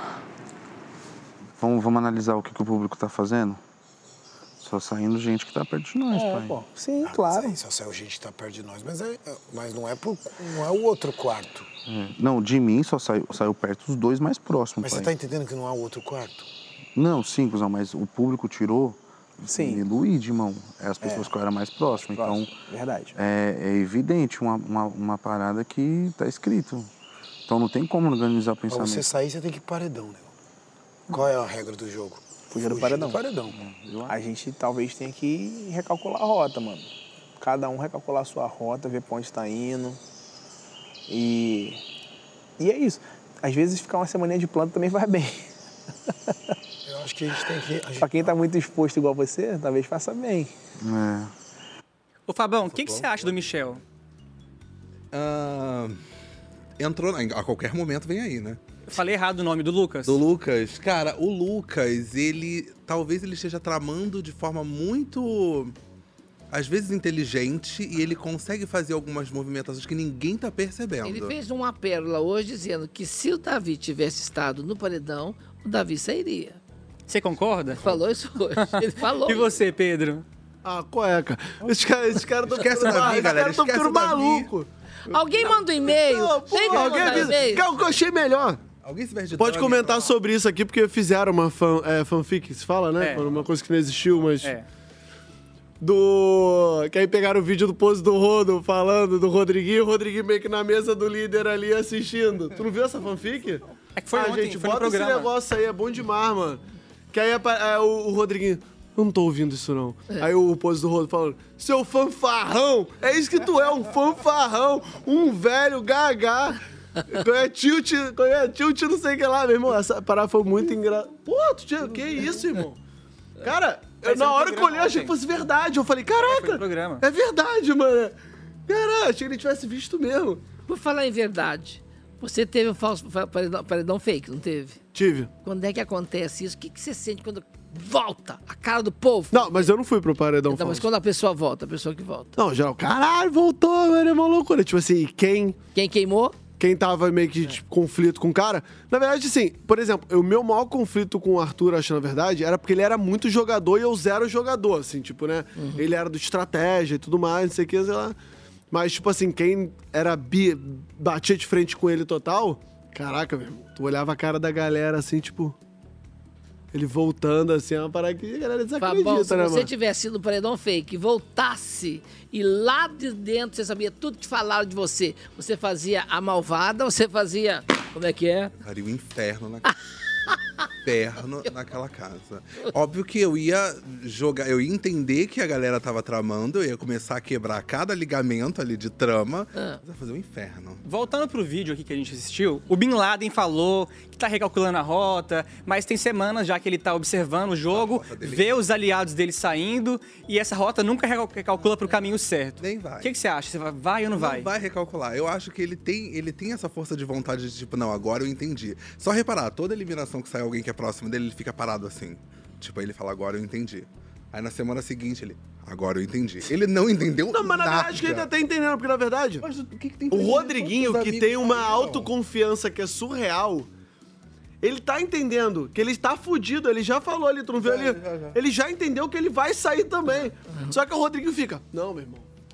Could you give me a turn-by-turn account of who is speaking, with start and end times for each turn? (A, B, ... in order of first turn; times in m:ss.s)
0:01.6-0:03.6 A
0:04.6-0:06.6 A
0:06.1-0:07.6 B
0:07.0-0:11.7 C
0:11.9-0:15.1 A
0:14.8-0:16.5 C
0:16.9-0:22.5 A
0:19.4-0:19.8 B
0:22.1-0:23.1 B
0:23.1-0:26.9 A
0:27.5-0:29.1 A
0:28.7-0:30.3 C
0:31.1-0:33.6 C
0:32.5-0:33.2 B
0:33.6-0:34.1 A
0:34.0-0:40.0 B
0:41.1-0:41.8 B
0:42.6-0:45.5 B
0:46.1-0:46.3 B
0:46.8-0:48.3 C
0:48.0-0:50.5 B
0:50.8-0:51.3 A
0:52.3-0:53.8 D
0:52.7-0:53.6 E
0:55.1-0:56.0 E
0:56.8-0:58.6 E
0:58.9-1:00.2 D
1:00.0-1:05.7 E
1:06.5-1:11.3 E
1:11.0-1:16.6 F
1:17.1-1:17.8 D
1:17.8-1:19.5 F
1:18.6-1:20.2 D
1:20.6-1:24.7 G
1:22.4-1:24.5 E
1:25.1-1:27.6 F
1:25.4-1:28.6 G
1:26.7-1:28.0 E
1:28.8-1:30.1 E
1:29.4-1:34.5 G
1:33.0-1:33.3 D
1:35.8-2:02.8 G
1:44.0-1:45.3 D
2:03.4-2:10.4 G
2:04.0-2:05.1 D
2:06.1-2:07.0 D
2:10.7-2:14.8 F
2:14.9-2:15.3 G
2:15.4-2:19.7 F
2:19.3-2:20.8 G
2:20.5-2:22.3 F
2:22.4-2:25.6 G
2:25.7-2:26.4 F
2:26.6-2:38.2 G
2:35.6-2:35.8 F
2:38.7-2:45.6 G
2:46.7-2:49.7 G
2:48.8-2:58.5 F
2:58.6-2:59.7 E
3:00.8-3:10.8 E
3:10.8-3:24.5 D
3:17.7-3:18.5 E
3:22.6-3:23.1 E
3:24.1-3:38.3 E
3:37.3-3:39.4 G
3:39.4-3:42.1 E
3:40.1-3:43.7 G
3:44.6-3:52.3 G
3:47.6-3:48.4 E
3:50.5-3:50.7 F